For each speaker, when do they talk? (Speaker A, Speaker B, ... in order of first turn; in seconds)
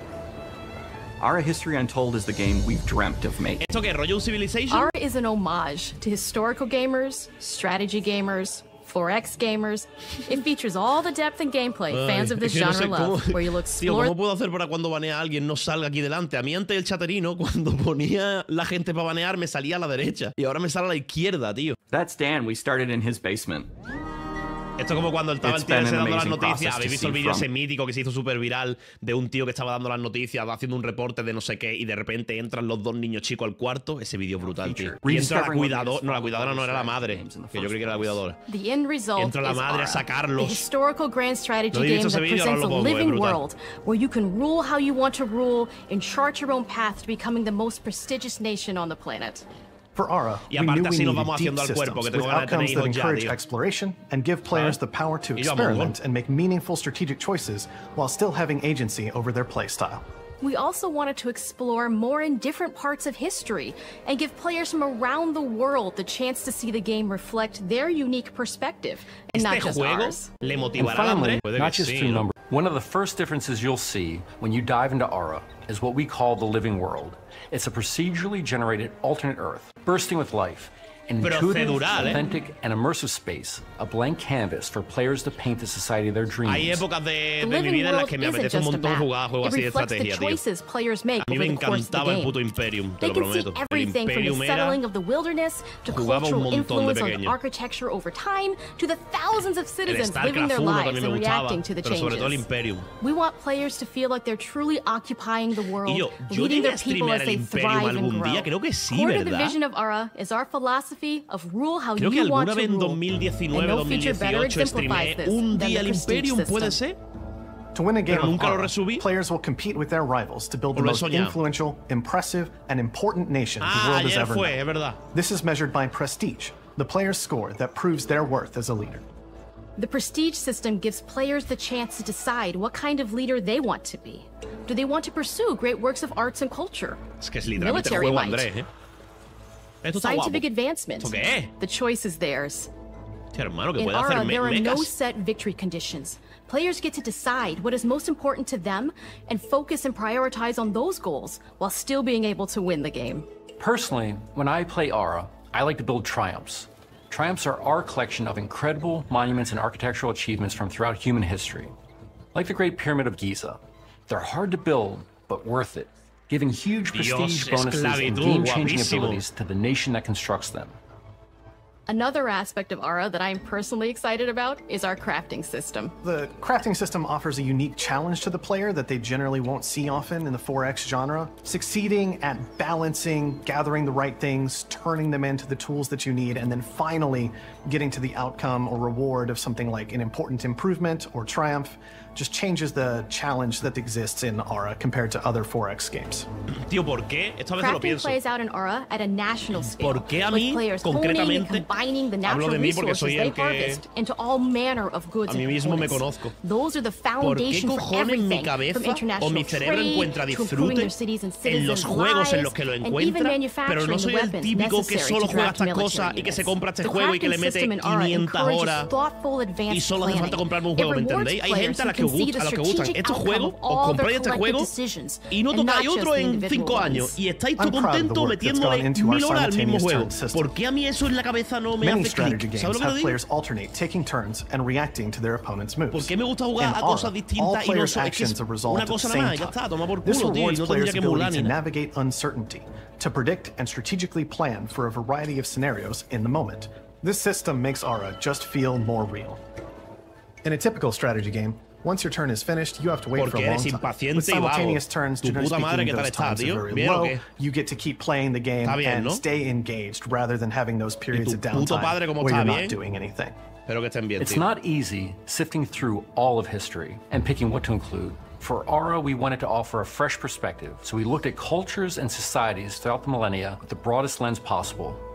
Speaker A: 1.2-3.6, 21.9-23.7, 25.4-27.5, 34.4-38.2
Speaker B: 3.6-4.9, 11.9-21.8, 24.8-38.4, 39.2-40.7, 41.7-43.4, 50.5-53.4, 54.5-54.8, 55.4-55.9, 69.3-72.3, 81.2-82.2, 86.5-90.4, 91.2-94.8, 95.9-97.3, 99.9-102.8, 105.8-109.5, 112.0-117.0, 118.1-119.0, 120.7-121.3, 123.6-125.0, 137.2-138.7, 139.8-140.4, 141.0-141.5, 143.3-144.9, 166.9-169.2, 196.6-198.2, 199.5-201.7, 202.2-203.8, 205.3-206.3, 207.2-210.9, 211.4-218.9, 219.7-224.7, 225.3-233.2, 235.9-241.6, 253.2-257.2, 258.6-259.2, 261.1-262.8, 263.7-264.4
Speaker C: 4.7-14.2, 38.5-49.5, 60.4-70.3, 87.4-92.4, 93.0-102.5, 103.0-113.0, 113.5-116.8, 129.8-137.0, 137.6-138.5, 139.9-142.7, 143.8-153.2, 171.9-175.9, 197.6-227.2
Speaker D: 49.9-60.0, 117.7-124.6, 125.1-129.0, 176.0-196.3, 227.6-230.5, 231.8-249.4, 250.4-263.3
Speaker E: 70.8-86.9, 153.6-161.7, 162.3-170.8, 264.2-275.0